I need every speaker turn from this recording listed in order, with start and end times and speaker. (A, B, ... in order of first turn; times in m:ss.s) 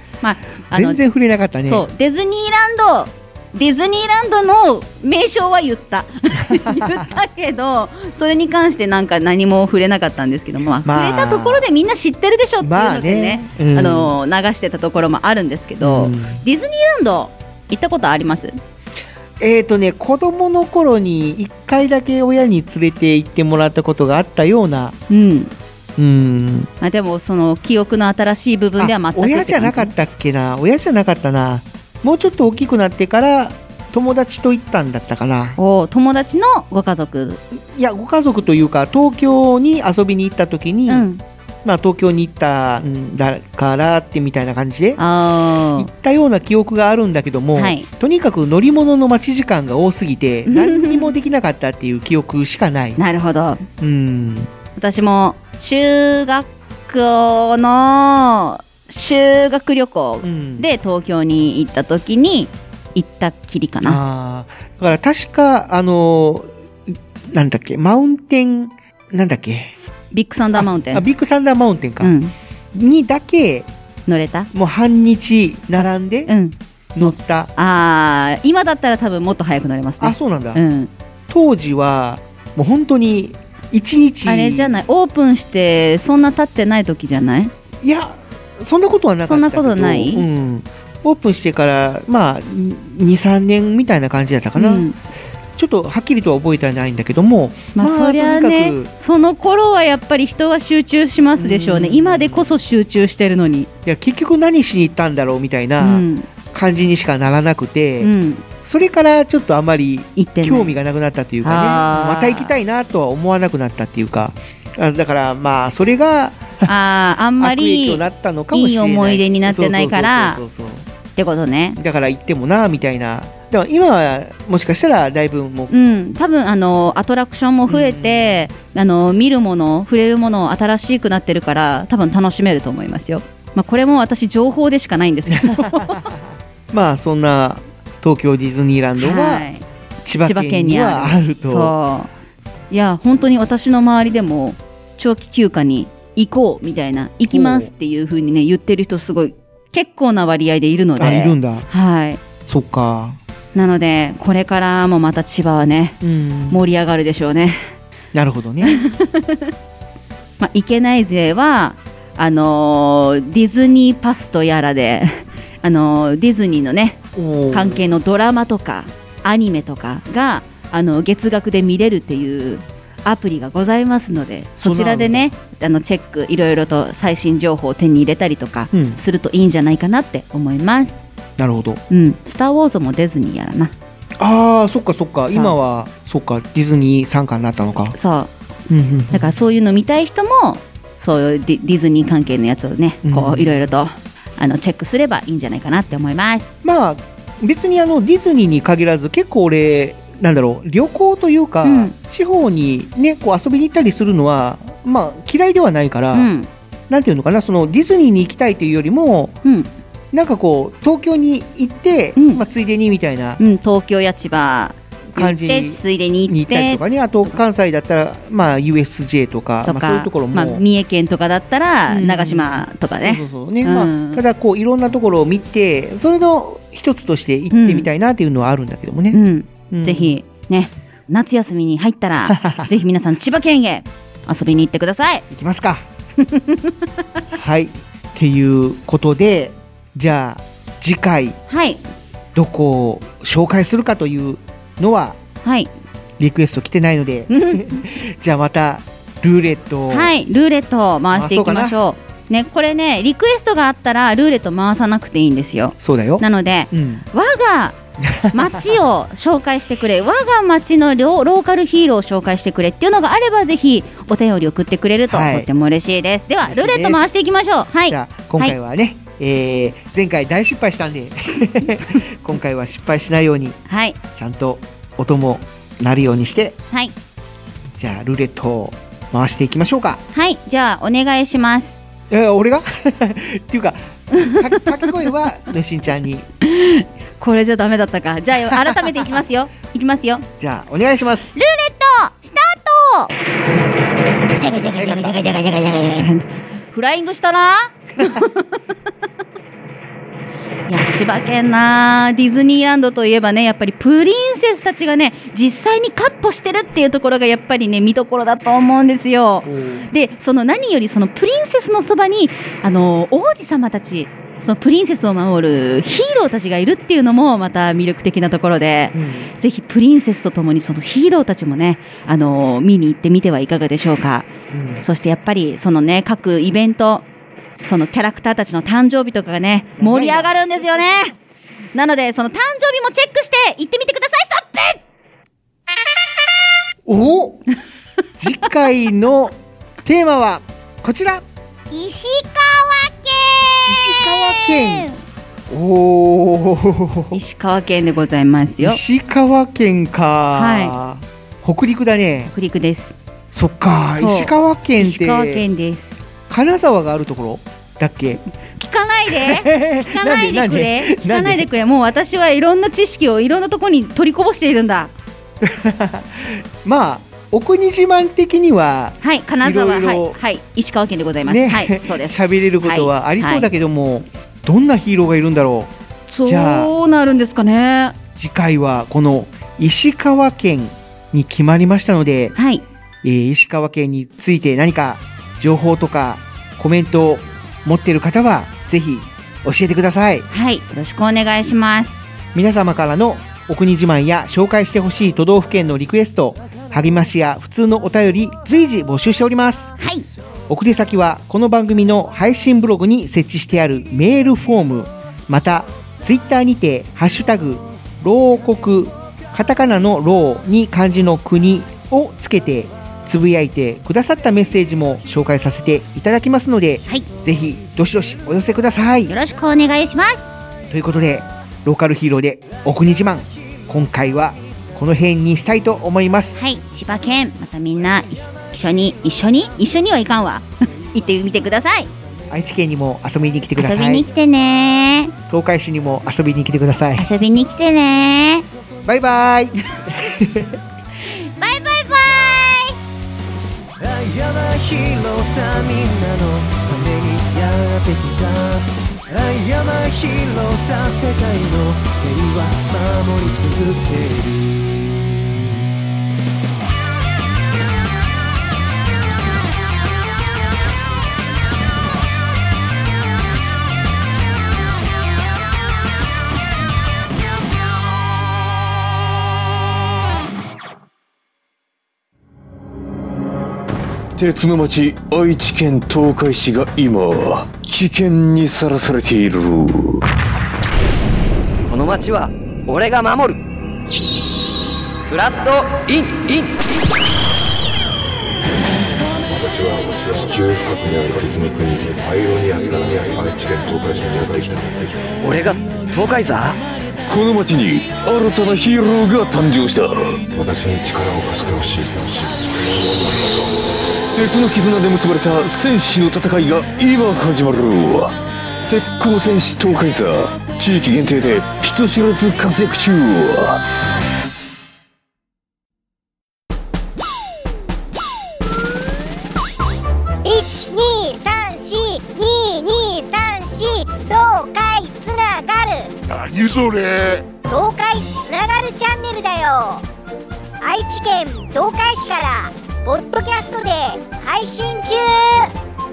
0:00.2-0:01.0 A
0:00.7-0:01.9 B
0:01.6-0:18.6 A
0:10.8-0:11.7 B
0:12.6-0:14.2 B
0:15.8-0:16.4 B
0:19.4-0:25.0 B
0:25.1-0:25.5 A
0:26.0-0:26.7 B
0:26.8-0:29.9 A
0:28.8-0:35.6 B
0:35.6-0:37.4 A
0:37.5-0:41.1 B
0:40.9-0:41.2 A
0:41.6-0:45.0 B
0:45.0-0:45.9 A
0:45.8-0:53.0 B
0:47.6-0:47.9 A
0:50.5-0:51.1 A
0:53.0-0:53.6 A
0:53.8-0:54.5 B
0:54.8-1:04.0 A
1:00.2-1:00.7 B
1:03.8-1:09.8 B
1:10.1-1:11.0 A
1:10.6-1:12.2 B
1:12.0-1:12.3 A
1:12.7-1:13.7 B
1:14.1-1:14.5 A
1:14.5-1:16.3 B
1:16.3-1:20.9 A
1:17.0-1:17.5 B
1:20.0-1:20.6 B
1:21.3-1:24.8 B
1:24.3-1:27.5 A
1:27.8-1:34.9 B
1:29.2-1:30.2 A
1:34.6-1:35.0 A
1:35.6-1:38.9 B
1:37.8-1:43.7 A
1:41.4-1:42.6 B
1:43.8-1:48.1 B
1:45.8-1:46.3 A
1:48.0-1:48.4 A
1:48.6-1:56.7 B
1:50.2-1:50.8 A
1:51.4-1:52.6 A
1:56.7-2:00.4 A
1:57.4-2:00.9 B
2:01.2-2:01.8 A
2:01.8-2:05.7 B
2:05.7-2:16.0 A
2:07.7-2:08.5 B
2:15.3-2:16.2 B
2:16.7-2:19.5 B
2:19.0-2:19.6 A
2:20.0-2:21.7 B
2:20.2-2:22.1 A
2:22.7-2:32.2 A
2:27.3-2:27.7 B
2:31.0-2:31.7 B
2:32.5-2:33.2 B
2:33.5-2:36.0 A
2:36.0-2:36.6 B
2:36.5-2:37.7 A
2:38.1-2:38.8 B
2:38.6-2:39.4 A
2:40.4-3:01.0 A
2:47.1-2:47.8 B
2:54.6-2:55.3 B
2:58.7-2:59.0 B
3:01.4-3:01.8 B
3:01.9-3:03.7 A
3:04.2-3:08.0 B
3:07.9-3:08.3 A
3:08.7-3:09.4 B
3:09.1-3:16.5 A
3:13.0-3:13.6 B
3:16.6-3:26.3 B
3:21.6-3:21.9 A
3:26.1-3:26.5 A
3:26.9-3:29.4 B
3:29.4-3:29.7 A
3:30.1-3:33.4 B
3:32.2-3:32.4 A
3:33.4-3:37.4 A
3:35.2-3:40.6 B
3:39.6-3:44.2 A
3:41.9-3:50.2 B
3:47.5-3:47.9 A
3:49.1-3:55.2 A
3:52.3-3:52.7 B
3:55.3-3:55.8 B
3:56.3-3:56.7 A
3:57.3-4:01.4 B
4:01.5-4:01.8 A
4:02.3-4:05.2 B
4:05.4-4:05.7 A
4:06.2-4:10.1 B
4:07.3-4:07.8 A
4:09.9-4:17.8 A
4:11.1-4:11.8 B
4:15.8-4:17.0 B
4:18.0-4:18.7 B
4:18.3-4:28.6 A
4:25.1-4:25.5 B
4:26.4-4:27.1 B
4:27.9-4:33.6 B
4:33.7-4:34.0 A
4:34.2-4:36.6 B
4:37.8-4:40.0 B
4:40.1-4:41.8 A
4:42.1-4:46.3 B
4:46.4-4:50.2 A
4:50.4-4:51.4 B
4:51.4-4:53.1 A
4:54.4-4:55.9 A
4:54.7-4:55.2 B
4:56.7-4:58.5 A
5:00.7-5:24.3 A
5:09.4-5:09.9 B
5:18.9-5:19.3 B
5:24.5-5:24.8 B
5:24.8-5:27.1 A
5:27.6-5:31.2 A
5:29.8-5:30.4 B
5:31.7-5:34.8 A
5:36.9-5:37.4 B
5:38.2-5:41.2 B
5:41.7-5:43.1 C
5:43.7-5:44.9 B
5:45.5-5:47.2 B
5:47.1-5:48.8 A
5:48.6-5:52.3 B
5:50.3-5:50.8 A
5:52.3-5:53.0 A
5:53.3-5:55.4 B
5:54.0-5:56.0 A
5:56.3-5:58.2 B
5:58.6-6:04.9 A
5:59.1-6:01.5 B
6:05.4-6:10.2 B
6:09.0-6:13.5 A
6:11.2-6:15.7 B
6:16.1-6:18.0 A
6:16.3-6:16.7 B
6:18.2-6:22.3 B
6:22.4-6:22.6 A
6:23.0-6:30.3 B
6:30.3-6:32.0 A
6:32.3-6:39.7 B
6:39.8-6:40.1 A
6:40.5-6:59.1 B
6:59.1-7:00.2 A
7:00.7-7:06.4 B
7:06.4-7:11.9 A
7:12.3-7:14.1 B
7:13.6-7:15.1 A
7:15.3-7:17.1 B
7:17.0-7:18.5 A
7:18.8-7:20.6 B
7:21.4-7:22.5 C
7:23.8-7:34.8 D
7:54.2-8:00.0 E
8:01.7-8:03.4 F
8:05.1-8:06.5 F
8:09.2-8:15.1 G
8:15.2-8:16.6 F
8:17.1-8:20.2 E
8:20.3-8:23.3 G
8:24.1-8:28.1 E
8:28.7-8:33.6 E
8:40.2-8:45.9 C
8:47.5-8:49.8 C
8:50.6-8:55.5 C